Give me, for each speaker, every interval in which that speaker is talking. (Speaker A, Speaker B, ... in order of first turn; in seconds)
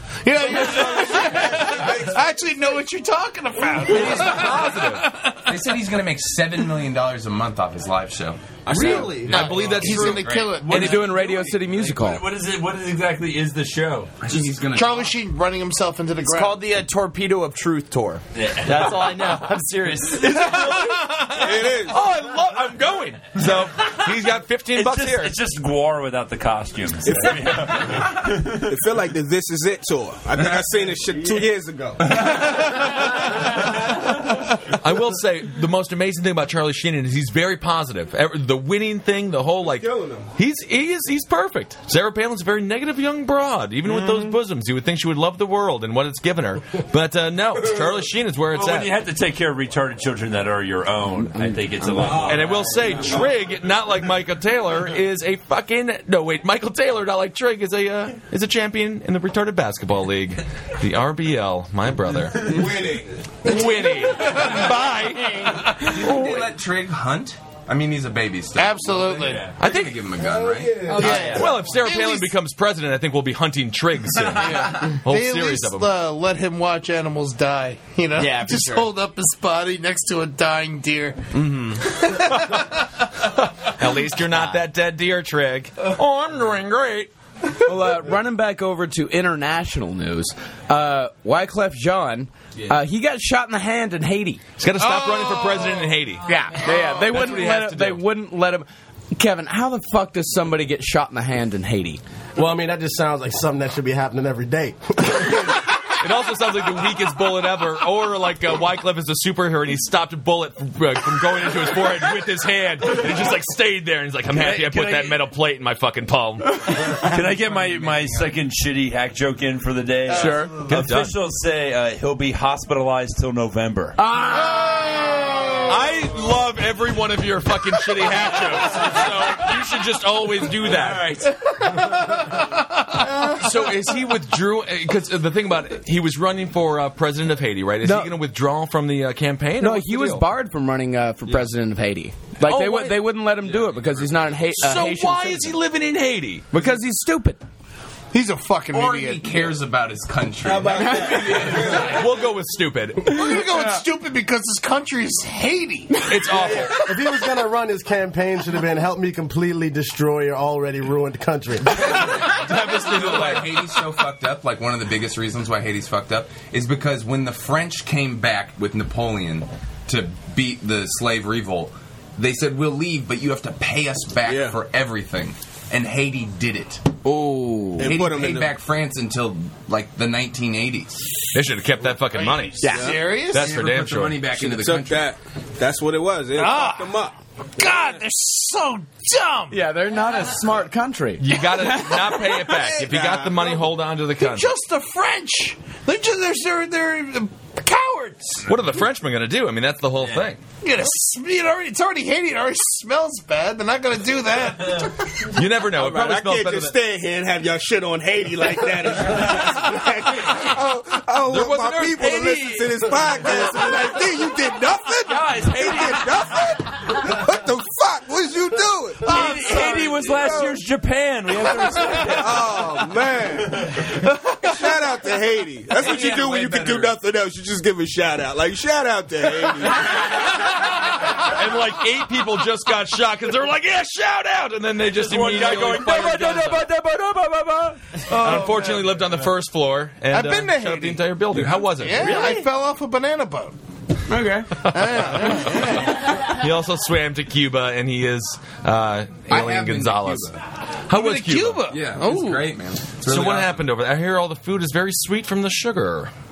Speaker A: 0.2-5.5, 9.1-11.1, 14.7-16.6, 64.2-65.9, 68.5-69.5, 70.9-72.3, 74.3-81.4, 81.9-82.8, 94.8-95.8, 131.8-132.4, 148.1-149.3, 153.0-156.3, 182.7-183.5, 186.3-187.0, 187.6-189.6, 194.2-198.5, 200.6-205.3, 238.1-239.1, 240.1-243.6, 244.6-246.2, 250.9-252.5
Speaker B: 0.5-2.1, 21.3-22.0, 27.0-28.0, 28.6-32.3, 39.6-40.3, 62.4-63.3, 70.2-71.4, 150.4-152.1, 156.4-156.7, 174.2-174.6, 177.8-178.5, 184.3-187.9, 192.6-193.6, 205.7-220.5, 222.2-230.2
Speaker C: 3.8-5.1, 8.7-10.5, 20.2-25.4, 34.8-48.9, 52.2-62.7, 63.4-65.8, 69.6-70.1, 70.9-75.9, 82.0-87.1, 94.6-98.0, 106.0-116.8, 120.2-121.1, 125.6-131.3, 133.0-140.2, 142.4-143.1, 144.5-146.4, 151.8-153.2, 156.1-156.8, 161.9-163.8, 181.3-184.3, 191.2-194.5, 198.5-200.4, 205.3-206.7, 211.2-213.2, 230.1-230.5, 231.0-242.2, 244.6-250.3, 250.9-251.7, 253.0-256.1
Speaker D: 5.5-9.7, 14.2-15.1, 52.0-53.0, 65.8-70.9, 117.1-118.4, 148.7-151.9, 162.0-176.9, 177.8-181.1, 182.8-185.2, 219.6-220.2, 225.8-226.9, 249.3-250.4, 251.7-253.6
Speaker E: 8.7-9.3, 16.2-20.9, 70.9-71.5, 78.1-78.9, 81.4-81.8, 84.3-84.6, 242.0-242.4
Speaker F: 9.7-14.5, 18.3-19.4, 24.7-28.7, 48.5-52.7, 69.2-69.5, 114.4-115.0, 116.7-124.0, 215.1-216.2, 219.0-222.6, 234.9-236.8
Speaker G: 10.7-12.2, 51.2-52.2, 87.6-94.4, 96.2-102.0, 114.4-115.1, 120.1-120.6, 124.0-125.5, 137.8-138.1, 139.6-145.5, 146.5-147.4, 150.8-151.6, 177.0-177.9, 182.6-183.0, 189.5-192.7, 244.1-244.5
Speaker H: 102.3-105.6, 156.8-162.1